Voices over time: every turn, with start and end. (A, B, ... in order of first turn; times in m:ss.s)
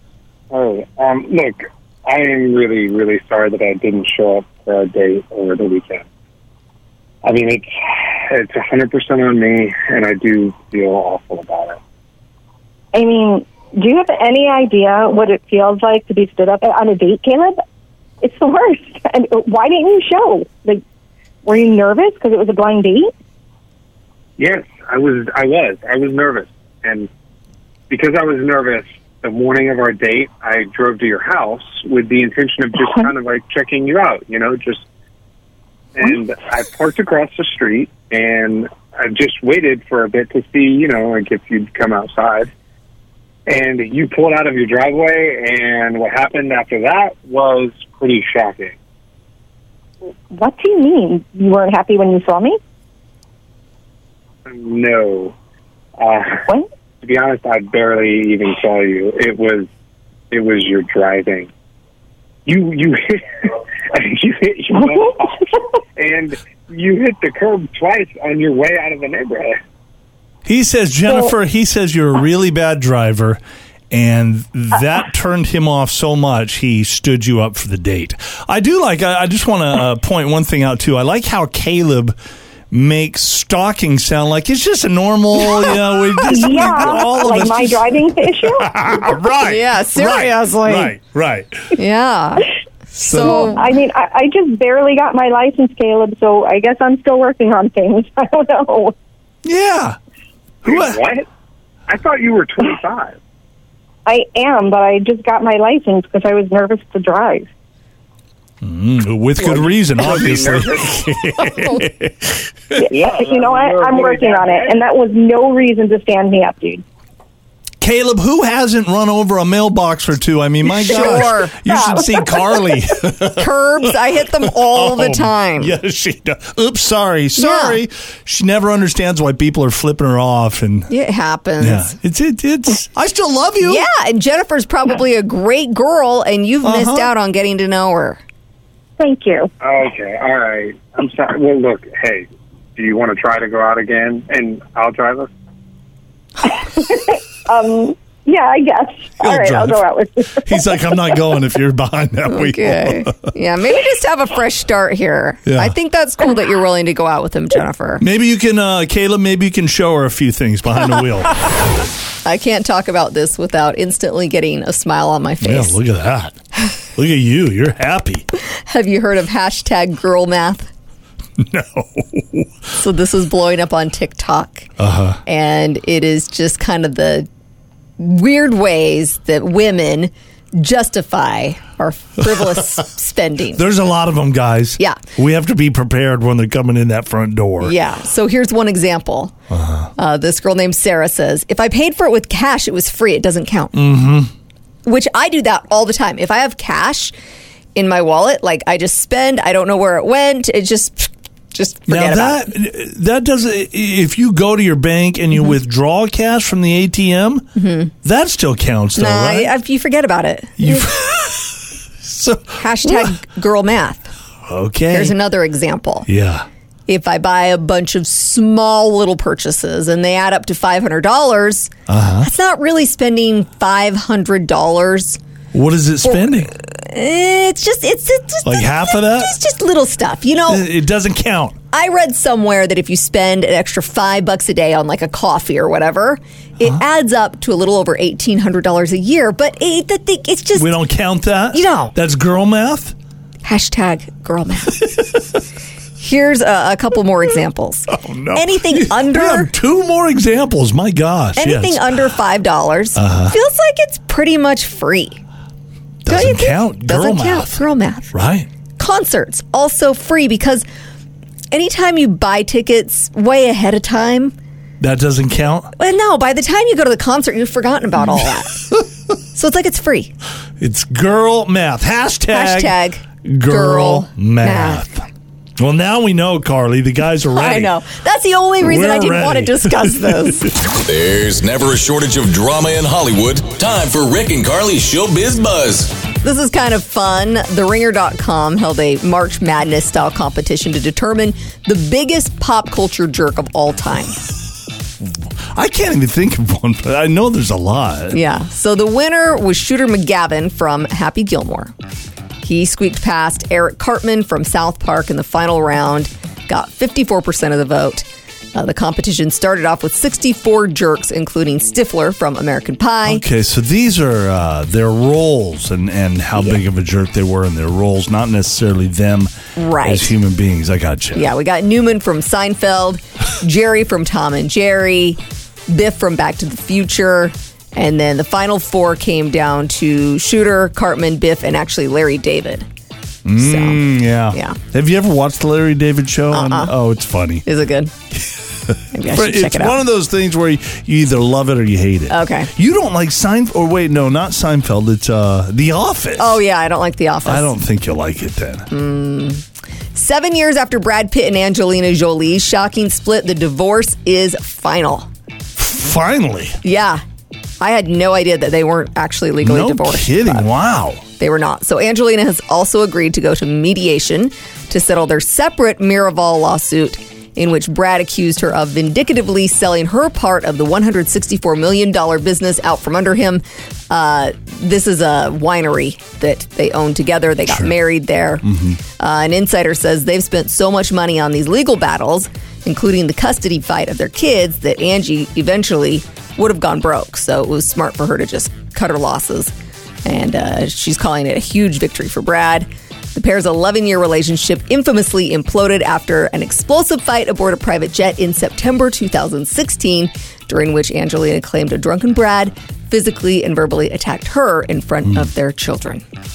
0:00.5-0:06.0 A
0:07.2-0:11.8 A
0:12.9-0:17.6 B
0:18.2-0:20.8 B
0:21.4-0:23.1 B
0:24.4-0:27.1 A
0:27.9-0:34.8 A
0:35.9-0:42.5 A
0:43.4-0:48.8 A
0:50.3-0:52.6 B
0:54.4-0:55.3 A
0:56.0-0:56.4 A
0:57.0-0:59.7 A
1:00.3-1:01.5 A
1:02.4-1:05.4 A
1:06.0-1:09.6 A
1:10.4-1:13.4 C
1:13.9-1:22.2 C
1:22.7-1:31.7 C
1:26.2-1:28.8 B
1:29.4-1:30.9 D
1:31.7-1:32.5 D
1:33.0-1:33.6 C
1:33.0-1:33.6 D
1:33.1-1:38.9 B
1:39.4-1:40.0 C
1:40.6-1:41.0 C
1:40.6-1:41.2 A
1:41.9-1:43.2 A
1:44.0-1:47.5 B
1:48.6-1:52.8 C
1:49.4-1:51.0 A
1:52.8-1:56.8 B
1:52.9-1:54.8 A
1:57.8-2:10.9 C
2:00.8-2:02.6 B
2:00.8-2:01.5 D
2:03.4-2:05.7 D
2:07.4-2:07.8 D
2:10.9-2:11.9 D
2:11.6-2:13.8 C
2:13.6-2:18.2 D
2:16.6-2:17.1 C
2:19.0-2:19.5 B
2:19.6-2:25.3 A
2:26.4-2:30.8 B
2:29.2-2:29.8 C
2:30.4-2:33.2 C
2:32.3-2:38.0 D
2:35.4-2:35.7 C
2:38.0-2:41.4 C
2:42.2-2:45.8 D
2:45.4-2:46.4 C
2:46.9-2:48.2 C
2:48.5-2:50.7 D
2:51.4-2:52.5 C
2:52.8-2:54.7 D
2:54.8-2:55.2 C
2:55.2-2:57.3 D
2:58.0-3:03.6 D
3:02.2-3:02.6 C
3:03.5-3:07.7 C
3:07.6-3:09.3 D
3:09.5-3:09.9 C
3:10.0-3:13.8 D
3:13.7-3:14.3 C
3:14.8-3:17.1 D
3:17.7-3:22.5 D
3:21.9-3:27.5 C
3:27.6-3:27.9 D
3:28.0-3:29.5 C
3:29.0-3:30.9 D
3:30.6-3:33.1 C
3:32.6-3:34.1 D
3:34.4-3:35.2 C
3:34.9-3:36.1 D
3:36.0-3:36.4 C
3:36.9-3:45.2 D
3:41.9-3:42.3 C
3:45.5-3:46.5 C
3:46.0-3:50.6 D
3:48.4-3:49.4 C
3:50.5-3:51.6 C
3:51.7-4:00.7 D
4:00.6-4:02.9 C
4:01.5-4:01.9 D
4:03.4-4:04.9 D
4:06.0-4:09.5 D
4:07.9-4:12.0 C
4:11.4-4:15.2 D
4:13.0-4:13.4 C
4:16.0-4:17.6 C
4:16.1-4:18.1 D
4:18.1-4:18.5 C
4:18.8-4:20.6 D
4:21.5-4:24.3 D
4:24.8-4:25.7 C
4:25.8-4:28.6 D
4:29.3-4:30.1 D
4:30.6-4:37.7 C
4:32.3-4:34.8 D
4:37.3-4:40.5 D
4:38.6-4:40.5 C
4:40.7-4:45.9 E
4:46.2-4:54.2 D
4:55.5-4:58.2 C
4:58.1-5:01.7 D
5:02.4-5:13.2 D
5:13.0-5:21.3 C
5:19.6-5:20.1 D
5:21.1-5:32.6 D
5:33.2-5:37.4 C
5:33.4-5:34.6 D
5:36.3-5:36.7 D
5:37.4-5:37.9 D
5:38.2-5:46.4 C
5:38.9-5:39.8 D
5:42.1-5:42.5 D
5:46.2-5:47.5 D
5:47.2-5:48.7 C
5:48.7-5:55.1 D
5:55.6-5:56.6 C
5:56.6-5:57.0 D
5:57.6-6:00.5 D
5:59.4-6:01.0 C
6:01.2-6:29.5 D
6:18.4-6:18.8 C
6:30.0-6:46.0 D
6:45.0-6:45.3 C